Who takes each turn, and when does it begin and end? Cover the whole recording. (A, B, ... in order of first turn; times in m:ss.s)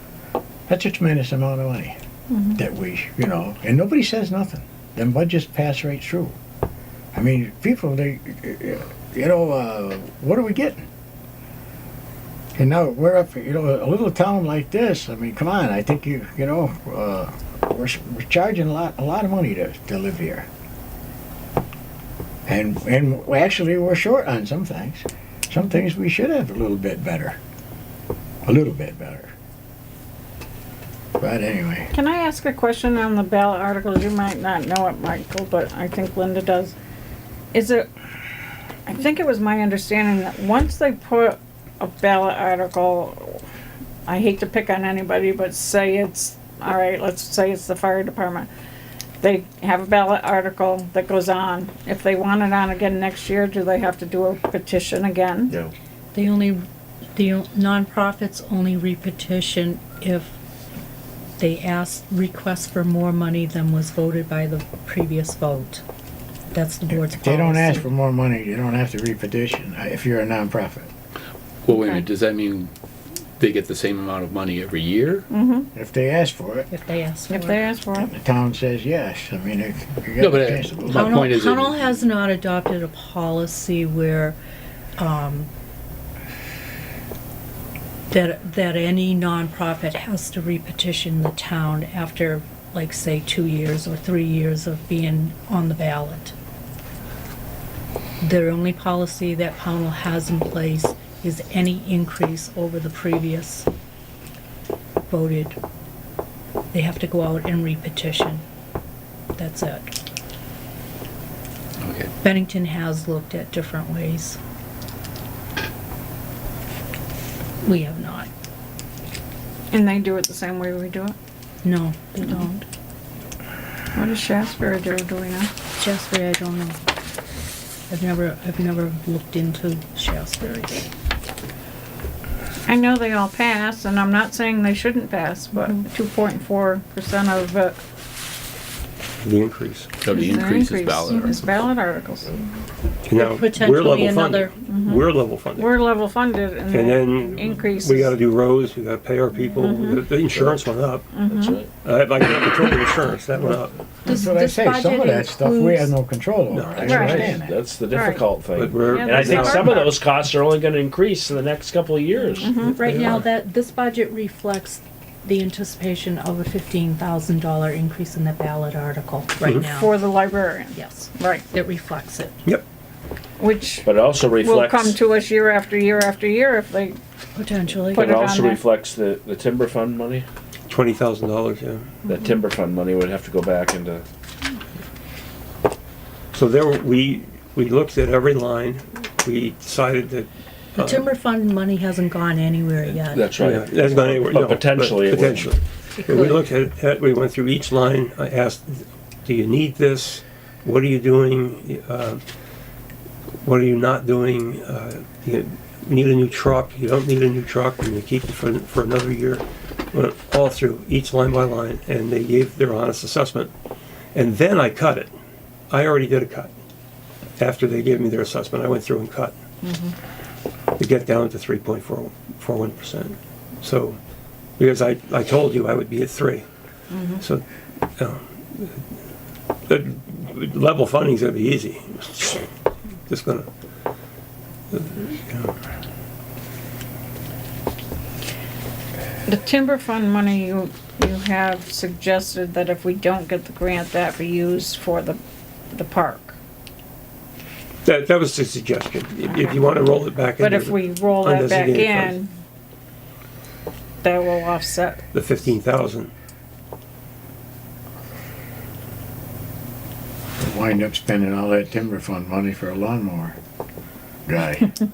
0:00.7-0:02.0 A
0:02.3-0:02.6 B
0:02.6-0:06.4 A
0:07.1-0:10.9 A
0:12.6-0:20.5 A
0:22.4-0:27.4 A
0:28.4-0:29.3 A
0:31.2-0:31.9 A
0:31.9-0:36.7 B
0:37.5-0:37.9 B
0:38.9-0:43.4 B
0:44.1-0:48.5 B
0:49.2-0:55.5 B
0:56.1-0:56.6 C
0:57.2-1:00.4 C
1:01.4-1:05.8 C
1:06.5-1:07.8 C
1:06.9-1:10.9 A
1:11.6-1:12.7 D
1:11.7-1:12.0 B
1:13.4-1:15.3 D
1:15.3-1:15.7 B
1:15.7-1:16.7 A
1:16.7-1:17.6 C
1:17.3-1:18.1 B
1:18.0-1:21.3 A
1:20.2-1:21.9 D
1:20.9-1:24.4 C
1:25.0-1:25.5 C
1:28.1-1:36.3 C
1:38.2-1:43.7 C
1:45.1-1:45.6 C
1:46.7-1:48.4 C
1:49.4-1:49.9 C
1:51.8-1:52.1 D
1:52.2-1:54.4 C
1:57.6-1:58.3 C
1:59.7-2:01.2 B
2:01.6-2:02.6 C
2:03.9-2:05.5 B
2:05.8-2:06.8 C
2:07.9-2:10.9 C
2:12.7-2:17.8 B
2:19.2-2:19.9 E
2:20.0-2:21.5 D
2:20.0-2:22.4 B
2:23.0-2:25.7 E
2:23.1-2:24.5 C
2:24.6-2:28.2 B
2:26.7-2:31.1 E
2:29.6-2:30.0 B
2:29.8-2:30.7 F
2:31.1-2:31.6 B
2:31.2-2:31.7 F
2:31.8-2:33.7 E
2:34.0-2:36.0 C
2:34.0-2:37.6 A
2:36.5-2:37.3 E
2:36.8-2:42.5 F
2:36.9-2:37.3 B
2:37.9-2:40.0 B
2:38.5-2:39.9 E
2:42.4-2:42.9 B
2:42.4-2:49.9 C
2:42.7-2:43.2 E
2:49.6-2:51.4 B
2:50.7-2:52.4 C
2:53.4-2:57.0 B
2:53.8-2:55.0 F
2:57.4-2:58.2 C
2:57.9-3:00.2 F
2:57.9-2:58.6 B
3:00.7-3:01.9 E
3:02.1-3:04.0 F
3:06.3-3:11.1 E
3:10.8-3:13.4 C
3:12.8-3:15.6 F
3:13.4-3:22.2 E
3:16.0-3:16.5 C
3:23.4-3:33.5 E
3:34.1-3:35.1 E
3:35.7-3:36.5 E
3:37.4-3:39.3 E
3:39.6-3:39.9 B
3:40.8-3:44.0 E
3:44.6-3:46.4 E
3:46.9-3:47.2 B
3:48.0-3:48.8 E
3:49.7-3:52.4 E
3:53.1-3:53.5 E
3:54.7-3:55.5 E
3:59.3-4:05.2 B
4:05.7-4:06.4 B
4:07.8-4:12.2 E
4:09.3-4:09.7 B
4:10.3-4:12.3 B
4:14.0-4:15.0 B
4:15.1-4:16.1 E
4:20.4-4:23.4 A
4:24.3-4:24.8 A